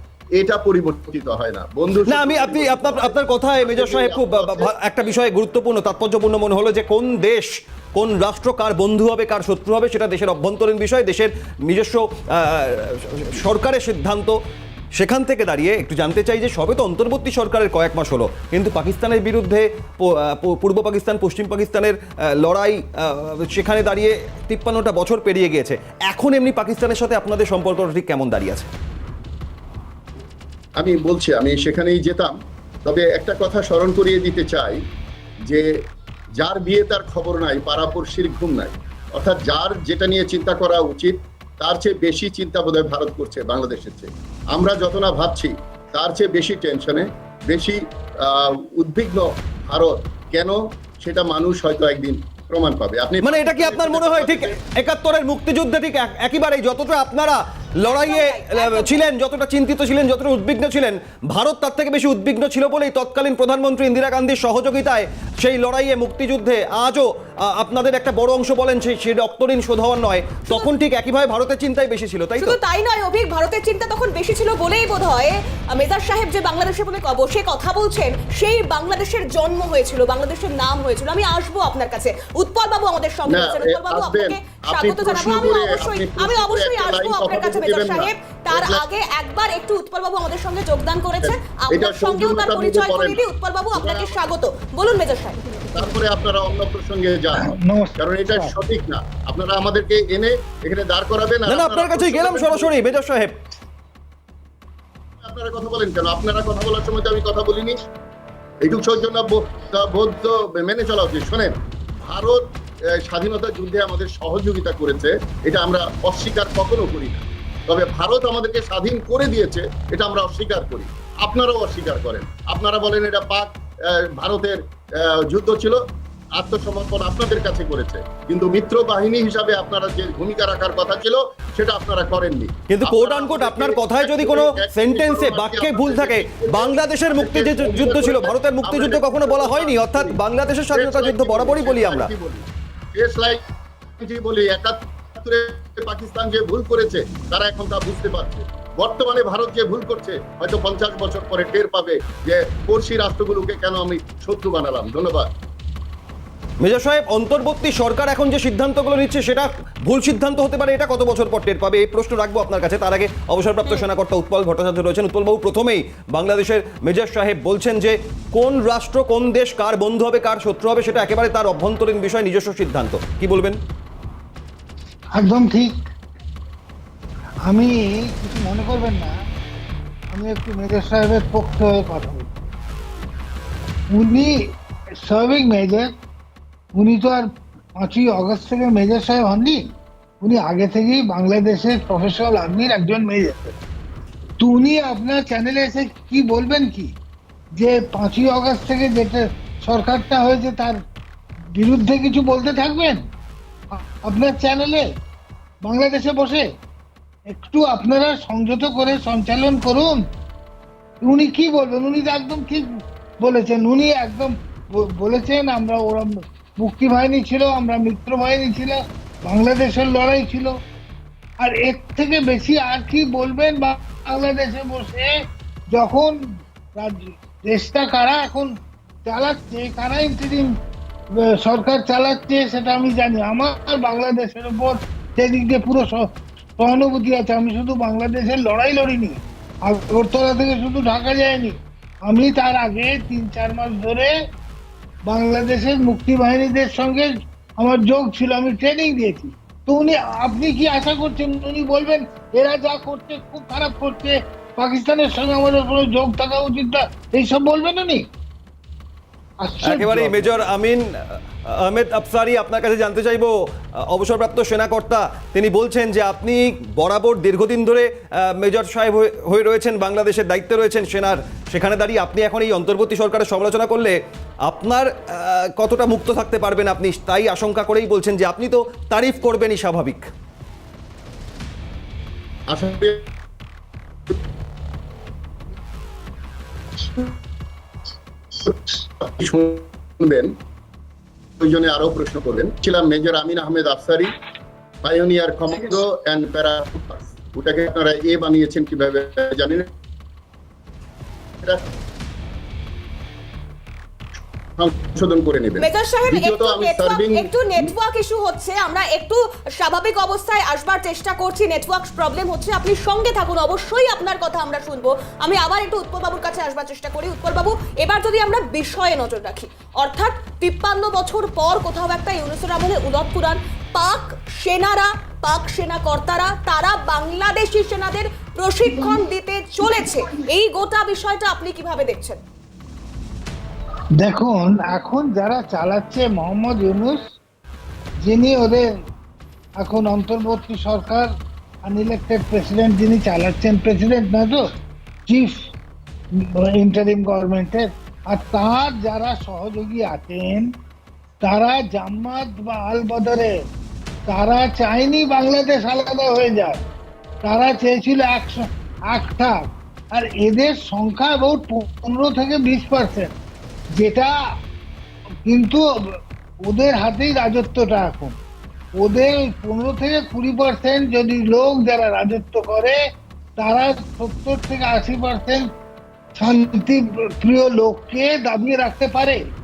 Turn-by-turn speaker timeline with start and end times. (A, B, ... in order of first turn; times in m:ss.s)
0:00.4-0:04.9 A
0:02.1-0:14.4 B
0:15.0-0:28.7 B
0:30.8-0:34.8 A
0:36.4-0:54.6 A
0:53.2-1:12.6 B
0:57.8-0:59.1 C
1:12.4-1:35.4 C
1:23.3-1:28.9 A
1:31.2-1:33.2 A
1:33.8-1:34.2 A
1:35.7-1:43.0 A
1:37.4-1:38.5 D
1:41.5-1:43.3 B
1:45.2-1:47.8 A
1:48.6-2:05.8 A
2:06.4-2:20.2 A
2:12.7-2:22.1 B
2:20.7-2:23.4 A
2:24.0-2:35.3 A
2:36.6-2:53.6 B
2:55.2-2:55.8 D
2:57.4-2:59.2 D
3:00.1-3:02.3 D
3:03.9-3:04.5 D
3:05.0-3:05.9 D
3:06.7-3:13.6 D
3:14.4-3:16.9 D
3:17.6-3:20.8 D
3:21.6-3:23.1 D
3:23.7-3:24.9 D
3:25.6-3:26.5 D
3:27.3-3:30.1 D
3:31.0-3:40.6 D
3:41.4-3:45.2 D
3:45.7-3:46.2 D
3:46.8-3:48.5 D
3:49.0-3:50.6 D
3:51.1-4:04.2 D
4:05.0-4:18.1 D
4:19.4-4:20.4 D
4:19.6-4:40.1 B
4:42.5-4:43.1 A
4:48.4-4:50.3 A
4:51.4-4:54.1 A
4:54.8-4:59.7 A
5:04.6-5:07.6 A
5:05.6-5:32.2 C
5:34.0-5:37.0 D
5:38.0-5:38.7 D
5:39.6-5:41.1 D
5:41.6-5:44.5 D
5:45.1-5:45.5 D
5:46.2-5:50.5 D
5:51.2-5:53.4 D
5:54.1-5:56.6 D
5:57.2-6:03.1 D
6:03.8-6:04.1 D
6:05.2-6:08.2 D
6:08.8-6:12.8 D
6:13.4-6:15.5 D
6:16.2-6:19.2 D